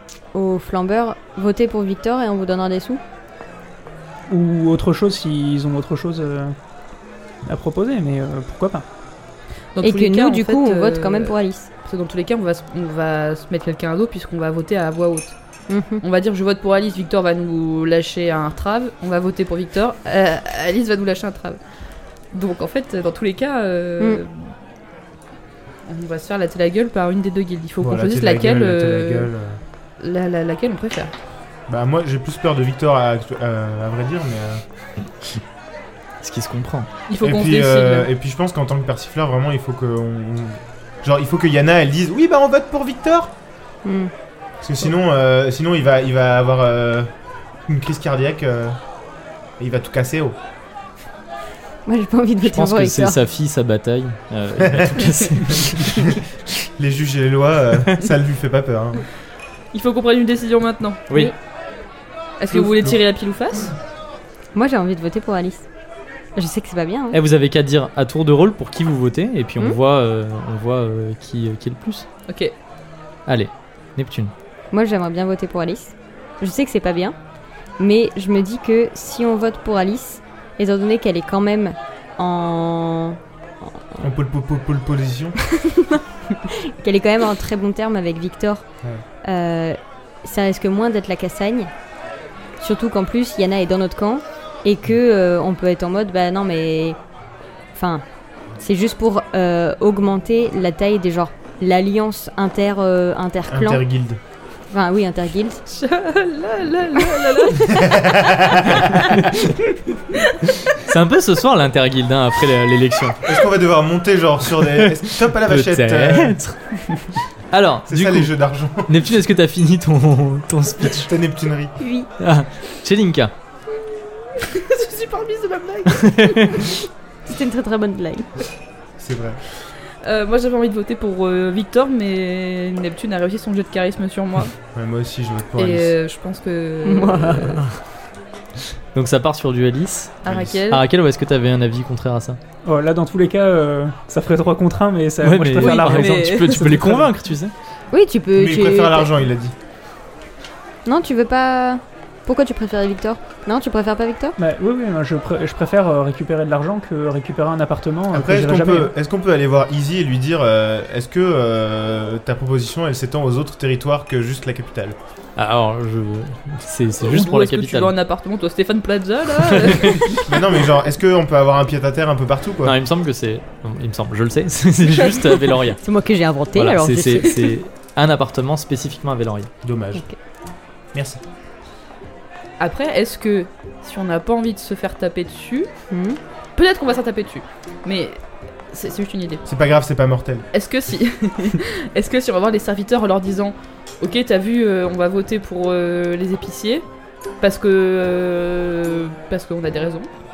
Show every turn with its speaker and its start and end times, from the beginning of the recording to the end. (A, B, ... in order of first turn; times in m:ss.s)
0:00.3-0:03.0 A
0:04.3-0:06.6 B
0:07.5-0:08.9 B
0:09.8-0:11.3 C
0:09.8-0:11.7 A
0:11.8-0:15.4 C
0:15.7-0:16.0 A
0:16.0-0:21.6 C
0:22.3-0:24.5 C
0:25.9-0:29.3 C
0:27.8-0:29.6 D
0:30.0-0:31.1 C
0:31.7-0:34.6 D
0:36.2-0:36.9 E
0:37.1-0:38.1 C
0:37.2-0:43.3 D
0:43.8-0:44.1 A
0:44.6-0:47.1 D
0:47.7-0:48.8 D
0:49.6-0:50.4 D
0:51.9-0:53.2 A
0:52.4-0:56.2 E
0:54.6-0:55.1 D
0:55.8-0:56.2 D
0:56.8-0:59.0 D
0:59.7-1:01.0 C
1:02.4-1:03.8 C
1:02.5-1:03.0 D
1:04.5-1:05.7 A
1:06.4-1:07.2 A
1:07.1-1:12.1 E
1:12.3-1:12.5 C
1:13.3-1:14.3 E
1:14.7-1:17.2 A
1:17.8-1:24.0 A
1:24.0-1:25.4 D
1:25.5-1:28.6 A
1:29.2-1:31.7 A
1:32.6-1:37.0 A
1:37.7-1:38.0 A
1:38.6-1:43.8 A
1:43.5-1:44.2 D
1:44.7-1:45.6 A
1:45.7-1:49.3 C
1:47.6-1:49.0 D
1:49.0-1:49.6 E
1:50.7-1:53.2 E
1:53.2-1:56.4 D
1:54.8-1:56.6 E
1:57.5-1:58.3 E
1:57.9-1:59.0 D
1:58.9-2:01.1 E
2:00.9-2:01.8 D
2:01.8-2:02.1 A
2:02.2-2:03.3 E
2:04.4-2:06.7 C
2:05.9-2:06.6 E
2:07.3-2:08.3 A
2:09.0-2:09.4 D
2:10.0-2:14.6 C
2:14.7-2:16.0 D
2:15.6-2:17.6 C
2:16.8-2:17.8 A
2:19.0-2:22.4 E
2:20.2-2:20.8 C
2:20.2-2:20.6 D
2:22.6-2:27.1 B
2:25.2-2:27.5 E
2:25.6-2:26.5 C
2:27.9-2:29.1 A
2:28.4-2:29.5 D
2:30.8-2:34.4 A
2:34.4-2:38.9 B
2:38.1-2:45.0 D
2:45.4-2:47.9 E
2:47.0-2:50.4 C
2:49.5-2:50.1 E
2:50.1-2:52.8 D
2:52.6-2:55.8 E
2:55.8-2:57.6 A
2:56.6-2:59.5 E
2:59.6-3:00.0 D
3:00.9-3:01.2 D
3:02.6-3:05.7 C
3:05.9-3:06.2 A
3:06.6-3:08.2 C
3:08.7-3:09.4 C
3:09.4-3:10.5 D
3:10.5-3:16.8 C
3:17.4-3:20.1 C